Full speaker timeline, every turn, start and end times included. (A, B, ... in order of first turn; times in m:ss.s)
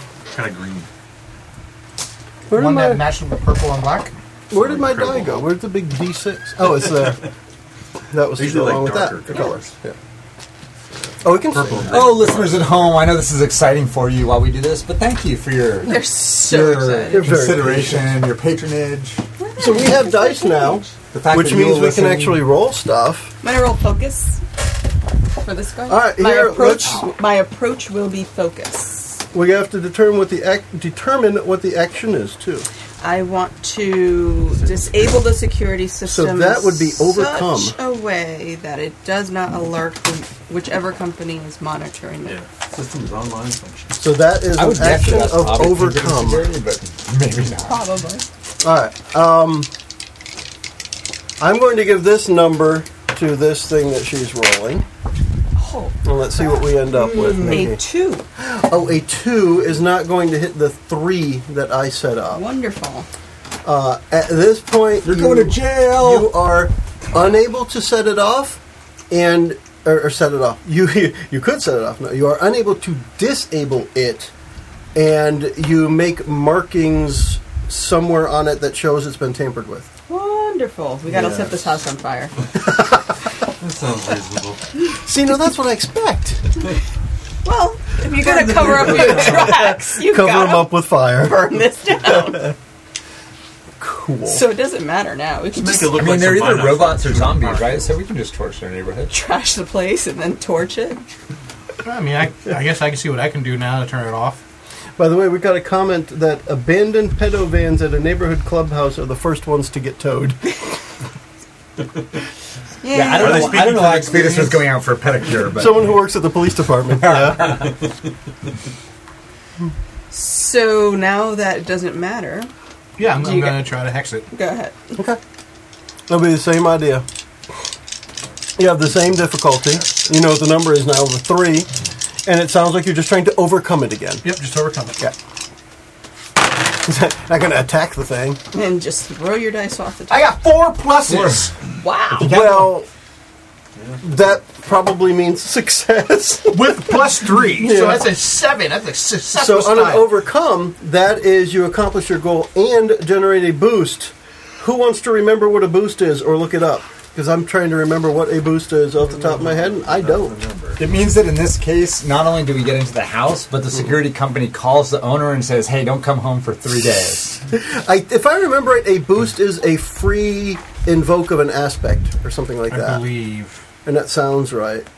0:00.3-0:00.9 A
0:02.5-0:03.0 B
0:02.5-0:04.1 C
0:04.5-0:07.2 B
0:04.5-0:05.5 A
0:08.1-0:10.0 B
0:08.4-0:09.7 A
0:10.9-0:13.0 A
0:11.2-0:12.1 B
0:11.9-0:19.2 D
0:15.9-0:17.4 E
0:17.1-0:18.2 B
0:19.4-0:20.9 E
0:19.6-0:23.3 B
0:21.1-0:22.4 D
0:23.4-0:24.4 E
0:25.4-0:29.2 E
0:25.9-0:27.1 B
0:29.3-0:32.7 B
0:33.0-0:42.4 E
0:34.5-0:35.3 A
0:36.0-0:37.8 B
0:42.2-0:44.0 A
0:44.0-0:46.5 B
0:44.5-0:47.8 D
0:47.6-0:48.3 E
0:48.6-0:49.7 B
0:51.4-0:54.8 B
0:55.6-0:58.2 E
0:56.0-0:57.8 B
0:58.4-1:02.4 B
1:02.3-1:03.1 E
1:03.6-1:08.6 B
1:05.0-1:06.3 D
1:09.1-1:14.3 B
1:15.0-1:19.9 B
1:20.1-1:22.4 E
1:21.1-1:21.6 A
1:23.5-1:24.7 A
1:25.0-1:26.7 B
1:27.4-1:32.5 E
1:28.2-1:31.6 B
1:33.8-1:34.4 B
1:34.3-1:36.1 E
1:35.5-1:37.9 A
1:35.9-1:39.1 D
1:39.1-1:41.1 E
1:41.8-1:44.4 C
1:45.0-1:50.6 B
1:52.8-1:53.8 E
1:52.9-1:56.0 D
1:53.2-1:54.7 A
1:55.5-1:57.7 B
1:57.0-1:57.8 D
2:00.1-2:02.5 E
2:03.0-2:04.3 C
2:03.1-2:03.7 E
2:04.3-2:05.0 E
2:06.1-2:07.0 B
2:08.6-2:11.7 B
2:09.7-2:10.1 A
2:12.3-2:14.3 B
2:14.2-2:15.0 C
2:16.7-2:18.4 B
2:18.5-2:20.4 E
2:20.1-2:21.5 C
2:21.1-2:21.5 D
2:21.8-2:22.4 E
2:22.2-2:22.7 D
2:22.2-2:22.9 B
2:23.8-2:24.2 A
2:24.0-2:28.1 B
2:26.5-2:30.1 C
2:29.3-2:40.3 B
2:39.0-2:40.8 A
2:40.8-2:47.4 D
2:47.5-2:53.0 B
2:52.7-2:53.6 C
2:53.8-2:54.9 B